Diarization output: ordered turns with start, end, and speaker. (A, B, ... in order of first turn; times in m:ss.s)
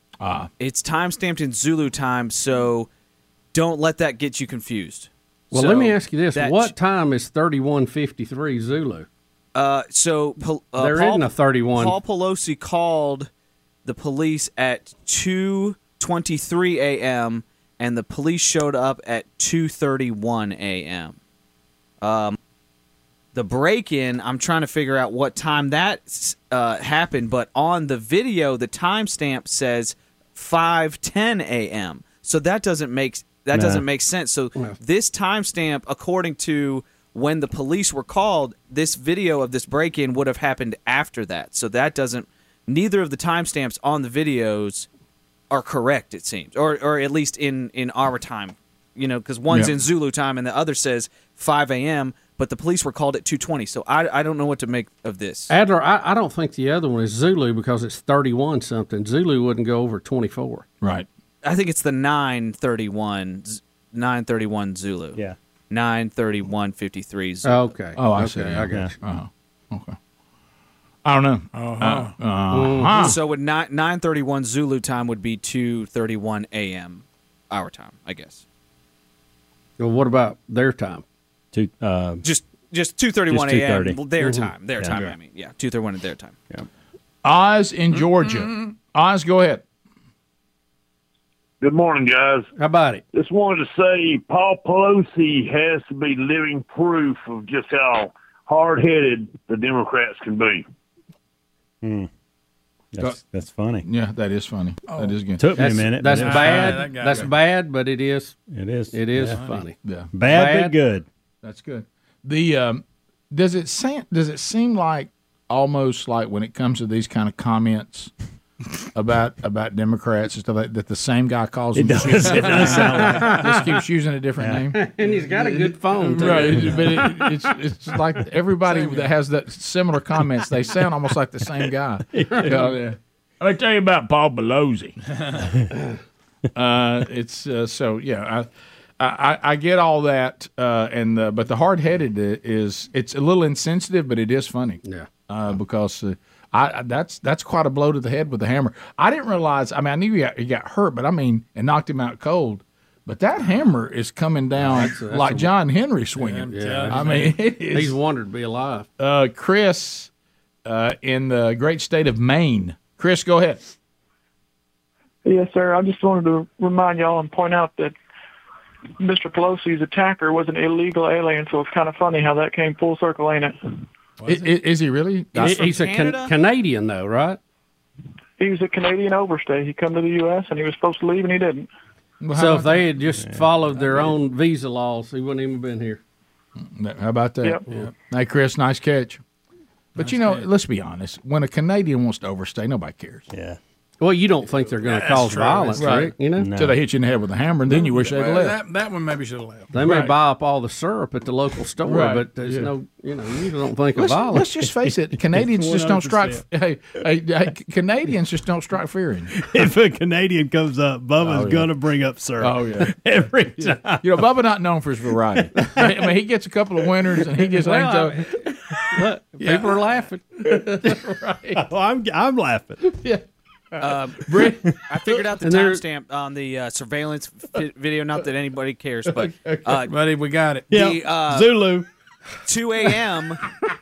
0:00.2-0:00.5 A
0:00.6-0:02.9 B
0:03.5-0:06.7 B
0:05.5-0:09.1 C
0:09.6-0:13.3 B
0:10.8-0:12.0 C
0:13.8-0:21.2 B
0:22.0-0:22.4 B
0:23.3-0:44.9 B
0:33.5-0:33.9 D
0:45.5-0:55.5 B
0:55.5-1:00.6 C
1:01.4-1:07.6 B
1:07.4-1:09.0 C
1:08.0-1:10.0 A
1:11.0-1:13.2 A
1:11.5-1:12.1 E
1:12.5-1:13.1 C
1:13.0-1:18.4 B
1:19.8-1:21.0 C
1:21.5-1:22.2 D
1:22.2-1:26.4 B
1:23.3-1:24.0 D
1:24.2-1:24.5 C
1:24.8-1:25.1 D
1:27.2-1:29.6 A
1:28.2-1:28.5 E
1:31.6-1:32.5 F
1:32.6-1:33.0 C
1:33.1-1:40.6 F
1:41.8-1:42.1 D
1:42.9-1:43.8 D
1:43.8-1:45.4 A
1:44.9-1:45.2 E
1:45.4-1:47.2 D
1:45.6-1:48.4 C
1:46.1-1:47.3 E
1:48.5-1:49.4 D
1:48.9-1:50.8 C
1:49.2-1:49.6 E
1:49.8-1:50.1 A
1:50.1-1:51.1 D
1:51.4-1:58.1 A
1:58.9-2:04.8 A
2:01.7-2:03.4 D
2:02.4-2:03.6 C
2:02.4-2:03.4 E
2:04.4-2:04.7 D
2:04.7-2:07.3 C
2:06.0-2:06.8 E
2:06.2-2:15.0 A
2:08.6-2:09.1 E
2:12.1-2:12.7 D
2:12.3-2:12.6 C
2:16.6-2:18.5 A
2:19.0-2:38.0 A
2:34.6-2:35.5 C
2:36.2-2:37.4 E
2:36.5-2:37.2 C
2:37.7-2:38.9 C
2:39.0-2:40.1 A
2:40.6-2:43.6 A
2:45.2-2:47.9 G
2:49.0-2:53.8 G
2:54.2-2:54.5 E
2:54.2-2:55.6 A
2:55.4-2:57.4 C
2:55.4-2:56.3 B
2:58.4-3:01.7 G
3:02.2-3:02.8 A
3:02.3-3:06.0 C
3:03.1-3:04.1 D
3:06.7-3:09.2 A
3:10.0-3:13.2 A
3:10.0-3:10.5 E
3:13.3-3:13.6 D
3:14.0-3:16.5 C
3:14.8-3:15.9 E
3:15.8-3:18.6 A
3:16.4-3:16.8 D
3:17.7-3:20.0 E
3:19.7-3:24.5 C
3:19.9-3:20.1 A
3:21.9-3:22.2 A
3:24.0-3:29.5 A
3:25.4-3:26.4 D
3:25.7-3:26.0 E
3:29.3-3:34.0 D
3:32.4-3:33.0 A
3:34.0-3:38.3 A
3:37.6-3:40.9 C
3:40.4-3:41.7 A
3:41.6-3:42.8 D
3:43.0-3:43.2 A
3:43.8-3:44.3 B
3:44.2-3:44.8 A
3:44.9-3:50.0 B
3:45.4-3:45.8 C
3:49.8-3:50.8 E
3:50.7-3:51.9 D
3:50.7-3:51.6 B
3:52.5-3:53.4 B